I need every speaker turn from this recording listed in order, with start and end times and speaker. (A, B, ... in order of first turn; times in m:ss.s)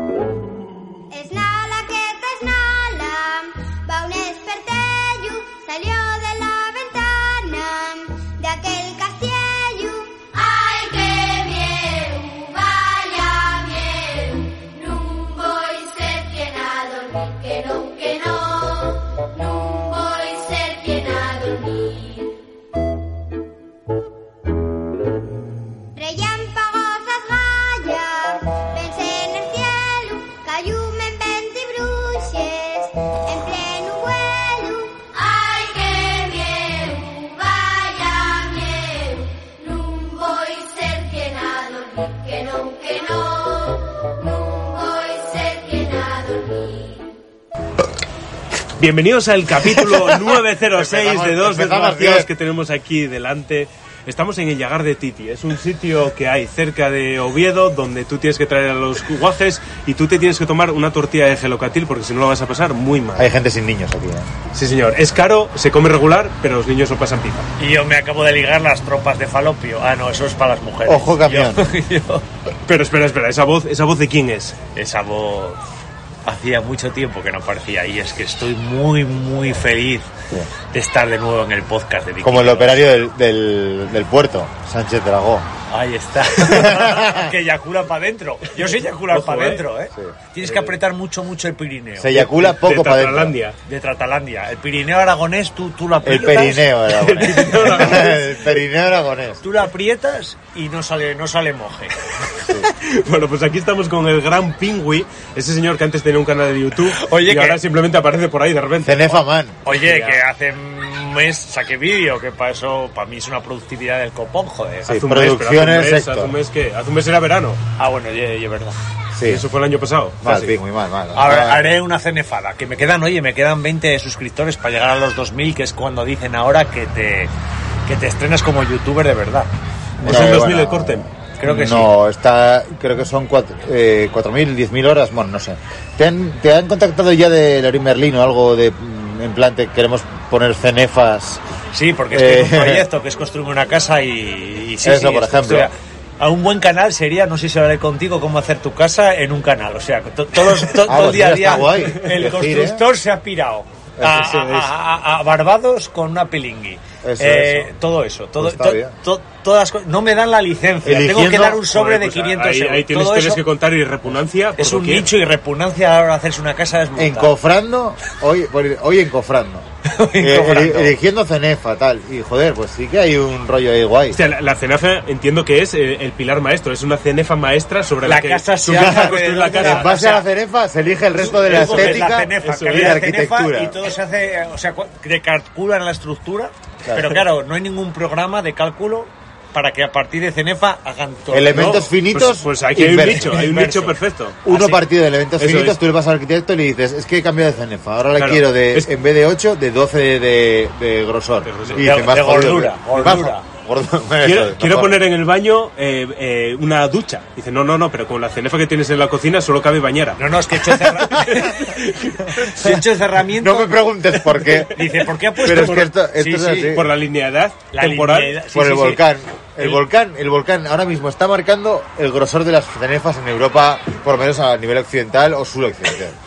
0:01.1-0:10.2 A
0:10.4-0:22.3 B
0:26.0-0:35.0 A
0:35.2-0:47.1 B
0:48.8-1:03.4 C
0:50.8-0:52.3 D
1:03.2-1:04.3 D
1:04.5-1:07.5 C
1:07.6-1:12.2 E
1:10.9-1:11.7 D
1:12.7-1:14.6 C
1:14.8-1:15.6 E
1:16.2-1:20.1 E
1:20.7-1:22.9 E
1:22.2-1:25.5 D
1:25.7-1:32.1 E
1:26.4-1:27.3 D
1:29.1-1:29.6 C
1:30.4-1:30.7 C
1:32.0-1:33.4 D
1:32.1-1:33.6 C
1:33.6-1:38.2 E
1:36.0-1:39.4 D
1:37.0-1:38.2 C
1:39.4-1:41.9 E
1:42.4-1:42.7 D
1:42.5-1:50.2 C
1:47.0-1:47.6 E
1:48.8-1:49.6 D
1:49.6-1:55.0 E
1:54.9-1:56.3 D
1:54.9-1:57.6 C
1:57.8-1:58.8 E
1:59.1-1:59.4 D
1:59.3-2:00.6 C
2:00.2-2:01.7 D
2:01.1-2:07.3 E
2:07.8-2:09.5 E
2:10.0-2:11.1 C
2:10.0-2:21.4 D
2:11.4-2:11.9 E
2:21.7-2:43.5 E
2:22.1-2:22.9 D
2:24.8-2:25.7 D
2:30.8-2:32.9 D
2:34.0-2:34.3 D
2:34.2-2:34.7 C
2:37.0-2:37.7 D
2:38.4-2:39.0 D
2:40.8-2:41.6 D
2:41.7-2:45.1 C
2:44.6-2:47.4 E
2:47.0-2:49.6 D
2:49.9-2:51.0 E
2:50.2-2:54.2 D
2:54.1-3:00.0 C
2:58.0-3:00.3 E
2:58.8-3:03.8 D
3:01.2-3:11.9 E
3:01.4-3:03.0 C
3:11.3-3:13.5 D
3:11.5-3:14.5 C
3:13.2-3:14.8 E
3:14.4-3:25.0 D
3:15.4-3:15.8 C
3:18.2-3:18.9 C
3:21.4-3:21.9 C
3:21.8-3:23.5 E
3:24.2-3:30.2 C
3:30.2-3:31.6 E
3:31.1-3:32.4 C
3:32.3-3:33.8 E
3:33.4-3:34.8 D
3:34.7-3:36.8 E
3:35.4-3:36.9 D
3:35.5-3:35.9 C
3:36.7-3:38.4 C
3:37.7-3:39.0 E
3:38.5-3:46.2 D